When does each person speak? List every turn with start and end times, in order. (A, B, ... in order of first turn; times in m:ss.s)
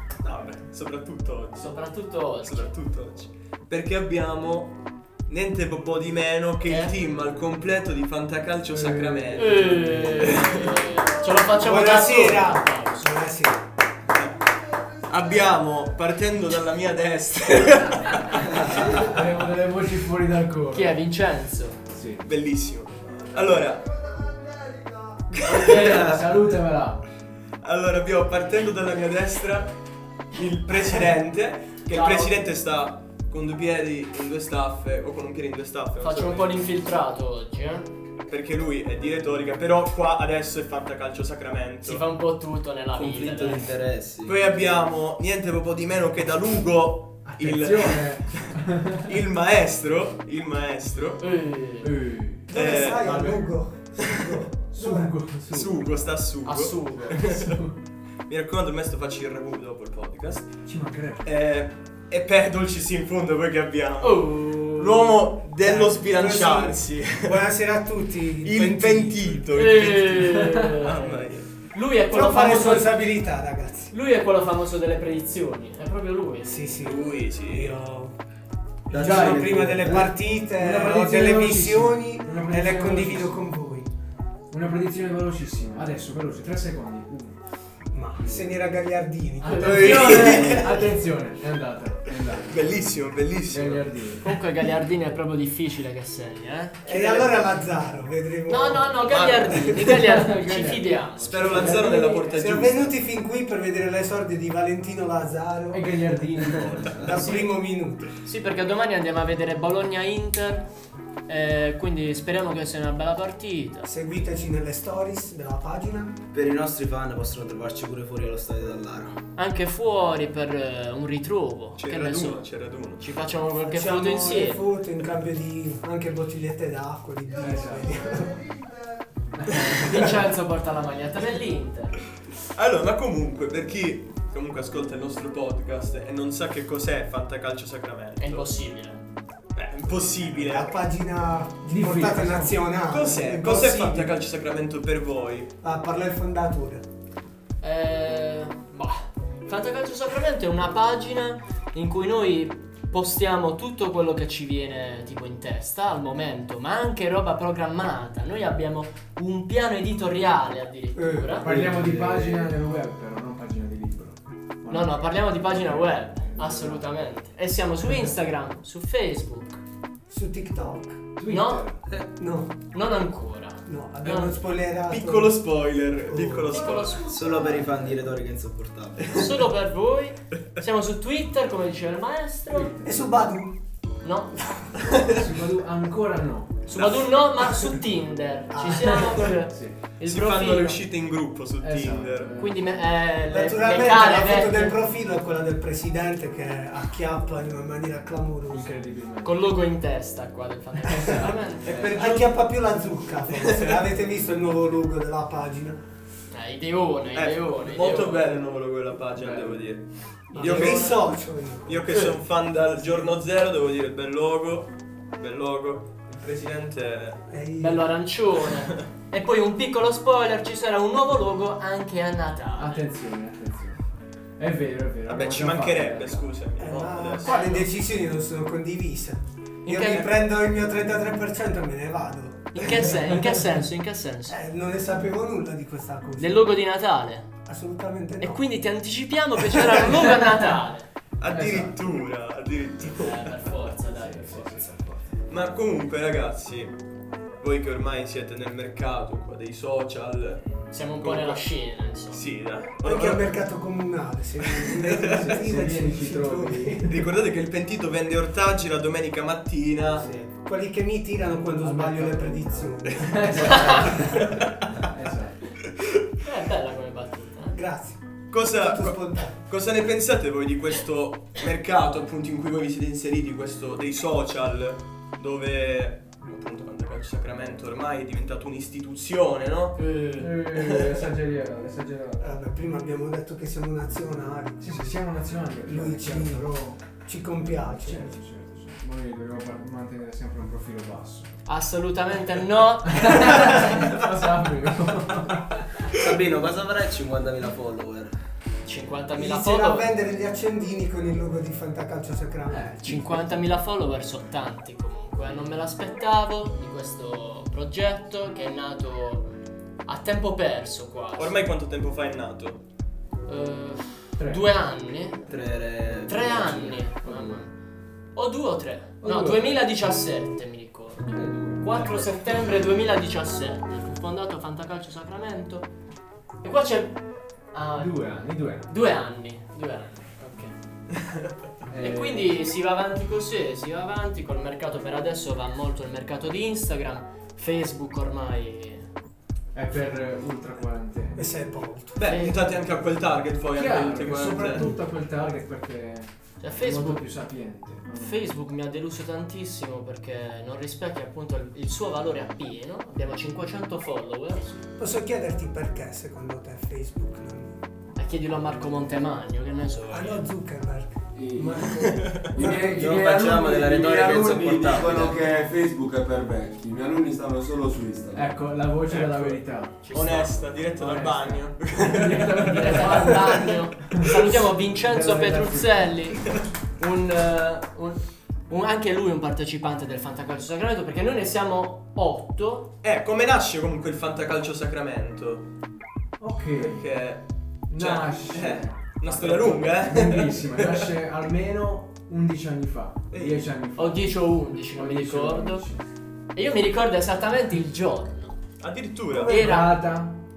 0:00.2-0:10.8 A
0:01.6-0:02.7 B
0:06.6-0:06.9 B
0:08.7-0:10.4 C
0:09.4-0:13.2 B
0:11.5-0:13.6 D
0:15.0-0:18.6 A
0:18.5-0:18.8 E
0:18.7-0:21.0 C
0:20.7-0:21.8 B
0:21.9-0:22.2 C
0:22.2-0:24.0 A
0:25.4-0:26.0 A
0:25.4-0:26.2 B
0:25.5-0:26.4 E
0:25.9-0:27.0 C
0:27.6-0:29.7 A
0:30.3-0:36.6 A
0:31.9-0:32.4 B
0:36.0-0:37.9 B
0:38.3-0:42.0 A
0:41.8-0:43.7 B
0:42.9-0:44.7 E
0:44.2-0:48.5 A
0:47.2-0:49.1 C
0:49.0-0:51.2 A
0:51.2-0:51.9 B
0:51.8-0:52.5 C
0:52.5-0:55.1 D
0:52.5-0:54.1 A
0:54.7-0:56.0 C
0:55.5-0:57.6 A
0:56.4-0:57.3 B
0:57.3-0:57.6 C
0:58.3-1:00.5 A
1:00.6-1:01.3 C
1:01.2-1:07.4 A
1:04.0-1:05.1 B
1:05.6-1:09.5 D
1:08.4-1:11.5 A
1:09.5-1:13.0 B
1:12.1-1:13.9 D
1:13.9-1:16.6 B
1:16.4-1:18.1 D
1:16.8-1:17.8 A
1:18.9-1:20.2 E
1:18.9-1:23.9 D
1:19.0-1:19.4 C
1:20.5-1:23.5 C
1:24.5-1:27.4 C
1:27.9-1:30.8 D
1:29.4-1:30.8 B
1:29.5-1:32.6 C
1:29.6-1:30.7 A
1:32.5-1:33.9 A
1:33.5-1:34.3 C
1:34.2-1:37.4 B
1:36.8-1:39.0 D
1:38.5-1:41.9 B
1:39.1-1:39.8 A
1:39.5-1:40.0 D
1:39.9-1:42.6 C
1:41.2-1:42.9 A
1:42.3-1:45.8 D
1:45.7-1:47.1 C
1:47.0-1:48.1 D
1:47.1-1:47.6 B
1:48.2-1:50.7 B
1:51.3-1:53.9 B
1:53.8-1:56.2 D
1:56.3-1:59.2 E
1:59.3-2:04.6 B
2:01.8-2:03.1 A
2:03.6-2:08.4 D
2:07.4-2:07.9 C
2:09.4-2:09.7 C
2:09.5-2:12.0 B
2:12.5-2:18.5 A
2:18.2-2:19.0 B
2:19.5-2:20.8 A
2:20.2-2:24.1 D
2:21.6-2:22.6 C
2:22.9-2:25.5 A
2:25.6-2:26.8 D
2:27.6-2:41.5 B
2:40.9-2:41.4 D
2:41.4-2:46.9 C
2:41.4-2:42.5 F
2:44.7-2:49.6 B
2:47.8-2:48.1 C
2:50.1-2:51.0 D
2:51.2-2:51.8 C
2:51.3-2:51.7 B
2:52.2-2:52.5 D
2:52.7-2:54.4 B
2:53.7-2:55.5 D
2:54.9-2:57.2 A
2:56.0-2:56.7 D
2:56.5-2:57.6 B
2:57.1-2:59.5 E
2:59.0-3:02.7 B
3:02.5-3:03.1 C
3:02.8-3:03.6 D
3:04.0-3:04.5 B
3:04.6-3:05.0 D
3:05.0-3:06.6 C
3:06.7-3:07.8 D
3:06.7-3:10.8 B
3:08.5-3:09.4 D
3:09.5-3:09.8 C
3:10.0-3:12.3 A
3:11.6-3:12.7 C
3:12.4-3:14.8 B
3:13.3-3:18.7 D
3:18.5-3:19.4 C
3:19.2-3:21.7 B
3:20.9-3:25.8 D
3:21.6-3:22.3 A
3:21.6-3:22.0 C
3:23.4-3:23.8 A
3:26.3-3:28.4 B
3:27.1-3:31.1 A
3:29.2-3:29.6 C
3:30.3-3:31.0 B
3:30.3-3:32.0 D
3:31.7-3:37.2 A
3:37.3-3:37.8 D
3:37.6-3:42.8 B
3:42.6-3:43.8 C
3:44.4-3:46.3 C
3:45.1-3:47.4 A
3:46.6-3:53.3 D
3:47.2-3:47.7 B
3:49.6-3:50.1 B
3:52.5-3:54.4 B
3:54.3-3:56.5 D
3:56.2-3:57.3 B
3:57.4-3:58.4 D
3:58.2-4:00.9 B
4:01.2-4:03.4 A
4:01.3-4:01.8 C
4:03.0-4:04.8 B
4:03.8-4:05.2 C
4:05.3-4:06.7 A
4:07.4-4:11.5 A
4:10.7-4:12.2 B
4:12.1-4:13.4 A
4:12.8-4:17.0 D
4:14.4-4:15.3 A
4:15.0-4:16.9 C
4:16.8-4:20.0 A
4:20.2-4:24.2 D
4:21.5-4:24.2 C
4:23.4-4:24.5 A
4:24.8-4:25.5 C
4:26.2-4:27.6 B
4:27.5-4:29.4 D
4:28.3-4:39.8 A
4:39.8-4:40.3 B
4:40.2-4:42.4 C
4:40.6-4:40.9 A
4:42.2-4:45.0 D
4:44.6-4:46.9 C
4:45.6-4:48.1 D
4:47.4-4:51.3 C
4:51.4-4:53.6 B
4:52.8-4:55.7 C
4:55.9-4:58.1 E
4:58.6-4:59.9 B
4:59.2-5:02.6 D
5:02.5-5:03.2 C
5:02.8-5:09.3 B
5:09.8-5:11.4 B
5:11.2-5:12.6 A
5:13.2-5:15.3 B
5:14.2-5:14.4 C
5:15.2-5:16.9 E
5:16.0-5:17.5 B
5:17.0-5:17.4 C
5:18.1-5:25.7 B
5:19.0-5:19.6 C
5:21.1-5:21.8 C
5:21.8-5:22.3 A
5:26.4-5:28.0 B
5:27.8-5:28.7 C
5:28.6-5:30.5 B
5:31.7-5:32.3 C
5:31.8-5:38.9 B
5:39.5-5:41.3 C
5:41.1-5:42.0 D
5:41.9-5:44.7 A
5:42.0-5:42.5 B
5:43.5-5:48.2 C
5:46.4-5:47.1 B
5:47.9-5:54.7 B
5:54.8-5:57.6 D
5:58.0-6:00.2 B
5:59.9-6:02.8 D
6:01.1-6:03.8 C
6:01.8-6:02.3 A
6:02.5-6:05.2 E
6:03.6-6:08.3 F
6:08.1-6:09.8 C
6:08.9-6:09.4 A
6:09.8-6:10.5 B
6:09.9-6:12.7 A
6:10.8-6:14.2 C
6:12.4-6:22.7 B
6:14.8-6:15.9 C
6:22.8-6:25.5 A
6:26.2-6:26.8 C
6:26.6-6:30.9 A
6:27.7-6:35.8 C
6:33.1-6:33.5 A
6:33.7-6:35.6 B
6:36.3-6:38.4 B
6:38.6-6:39.4 A
6:39.1-6:40.2 C
6:39.2-6:39.8 B